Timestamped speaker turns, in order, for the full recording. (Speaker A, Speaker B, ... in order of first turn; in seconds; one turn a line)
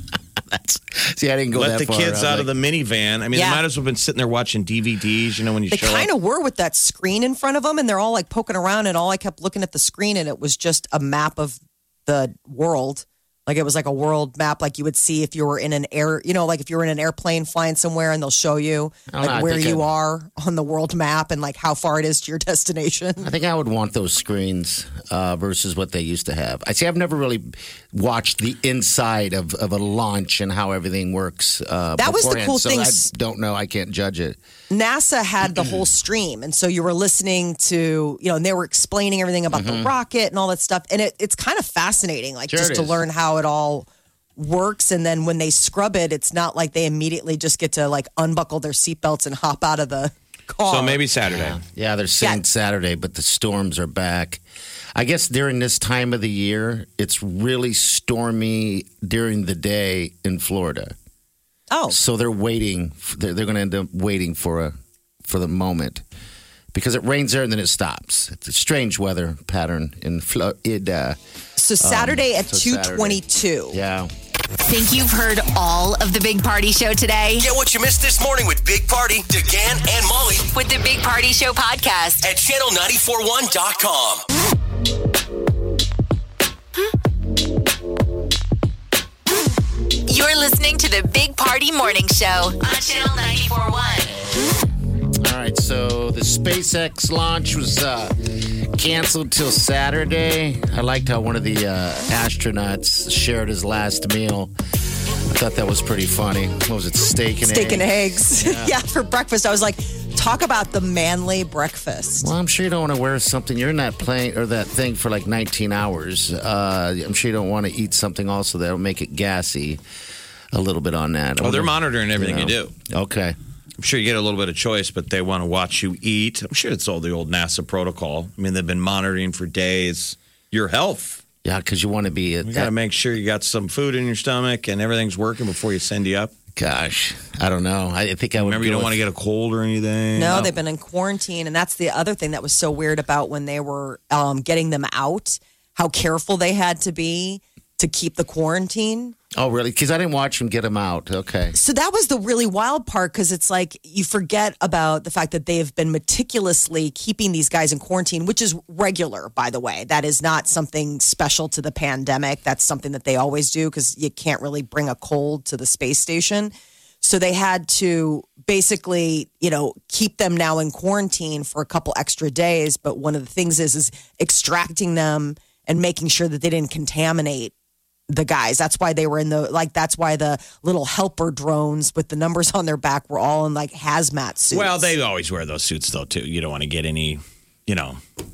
Speaker A: 0.5-2.5
Speaker B: 1.5-6.1
Speaker C: 3.3-3.6
Speaker C: 5.7-23.3
Speaker A: 19.1-19.9
Speaker A: 23.2-34.4
Speaker C: 32.0-33.1
Speaker C: 34.7-51.0
Speaker A: 39.5-39.9
Speaker A: 42.5-43.0
Speaker B: 50.7-51.6
Speaker A: 51.3-54.4
Speaker A: 55.0-60.9
Speaker C: 61.7-62.0
Speaker A: 61.9-66.0
Speaker A: 66.7-71.2
Speaker C: 71.6-73.8
Speaker A: 71.8-74.1
Speaker D: 74.6-77.5
Speaker E: 77.4-80.5
Speaker D: 80.5-82.3
Speaker E: 82.2-84.2
Speaker D: 90.1-94.2
Speaker A: 95.2-104.5
Speaker A: 105.3-108.8
Speaker C: 107.4-112.3
Speaker A: 112.2-119.8
Speaker A: 120.5-123.3
Speaker B: 121.4-122.7
Speaker B: 123.8-131.2
Speaker A: 131.4-132.7
Speaker B: 132.4-136.3
Speaker A: 136.6-139.0
Speaker B: 138.4-140.6
Speaker C: 140.2-149.1
Speaker A: 149.3-151.6
Speaker C: 151.5-177.5
Speaker C: 178.1-184.9
Speaker B: 184.5-188.0